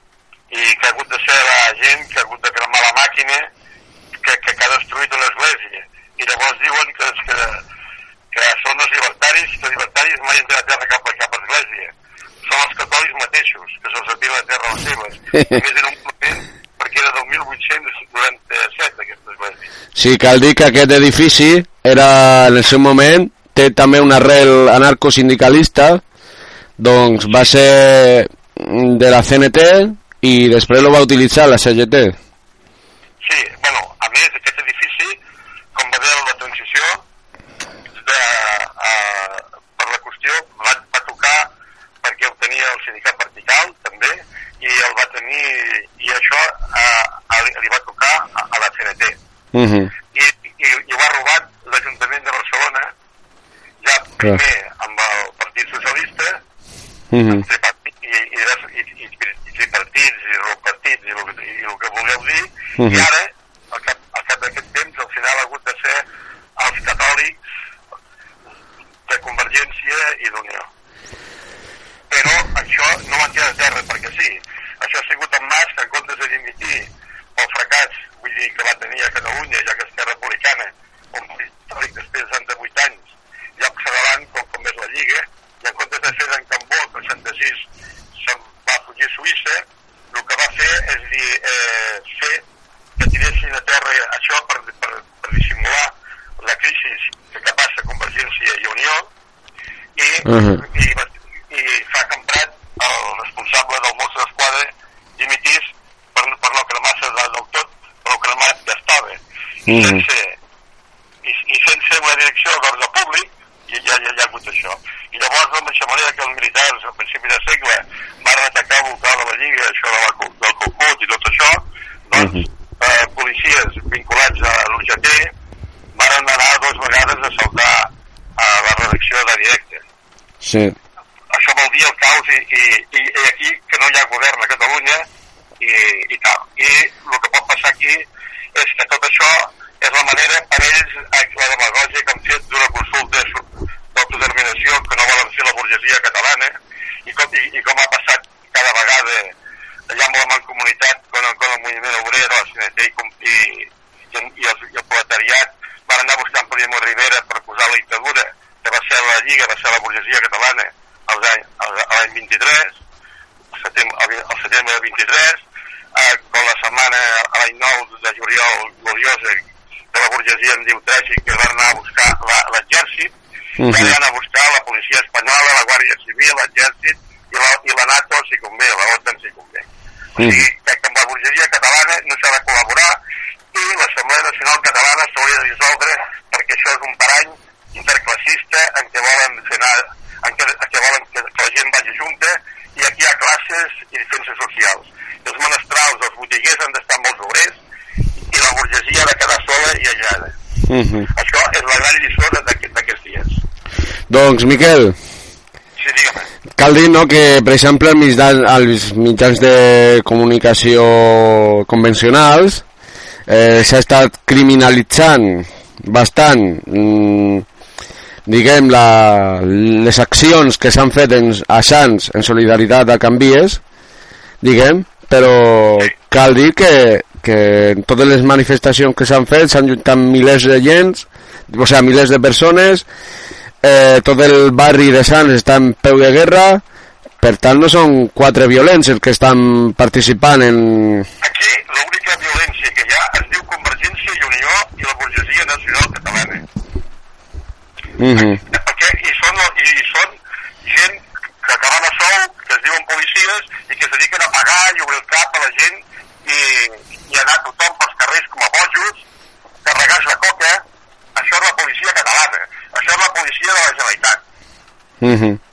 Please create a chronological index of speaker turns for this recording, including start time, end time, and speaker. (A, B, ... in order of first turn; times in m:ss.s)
0:00.5-0:03.5 A
0:04.2-0:07.6 A
0:08.3-0:11.9 A
0:12.4-0:19.6 A
0:19.9-0:26.0 B
0:26.8-0:32.2 B
0:33.2-0:35.2 A
0:35.8-0:37.0 A
0:37.9-0:41.5 A
0:42.0-0:49.2 A
0:49.5-0:49.9 B
0:50.1-0:52.9 A
0:53.8-0:56.4 A
0:57.1-0:57.4 B
0:57.3-1:06.0 A
1:02.8-1:03.1 B
1:06.6-1:07.4 A
1:09.1-1:10.7 A
1:12.1-1:27.7 A
1:28.2-1:32.4 A
1:33.0-1:39.1 A
1:40.0-1:50.4 A
1:40.2-1:40.6 B
1:49.7-1:50.0 B
1:51.2-2:05.3 A
2:02.2-2:02.4 B
2:05.9-2:09.8 A
2:10.4-2:10.8 B
2:11.3-2:15.1 A
2:15.6-2:26.6 A
2:27.1-2:29.3 A
2:29.9-2:42.8 A
2:43.6-2:45.4 A
2:45.9-2:53.1 A
2:53.6-2:53.9 B
2:53.7-3:03.0 A
3:00.2-3:00.4 B
3:03.5-3:17.6 A
3:18.3-3:20.4 A
3:20.7-3:21.1 B
3:21.1-3:23.4 A
3:24.1-3:25.0 B
3:25.8-3:26.3 A
3:26.6-3:32.6 B
3:33.3-3:37.4 B
3:38.2-3:43.6 B
3:44.4-3:52.8 B
3:53.6-3:56.6 B
3:57.2-4:01.1 B
4:01.2-4:06.4 A
4:08.0-4:08.4 B
4:08.2-4:19.0 A
4:19.6-4:20.6 A
4:21.2-4:24.2 A
4:25.0-4:25.4 B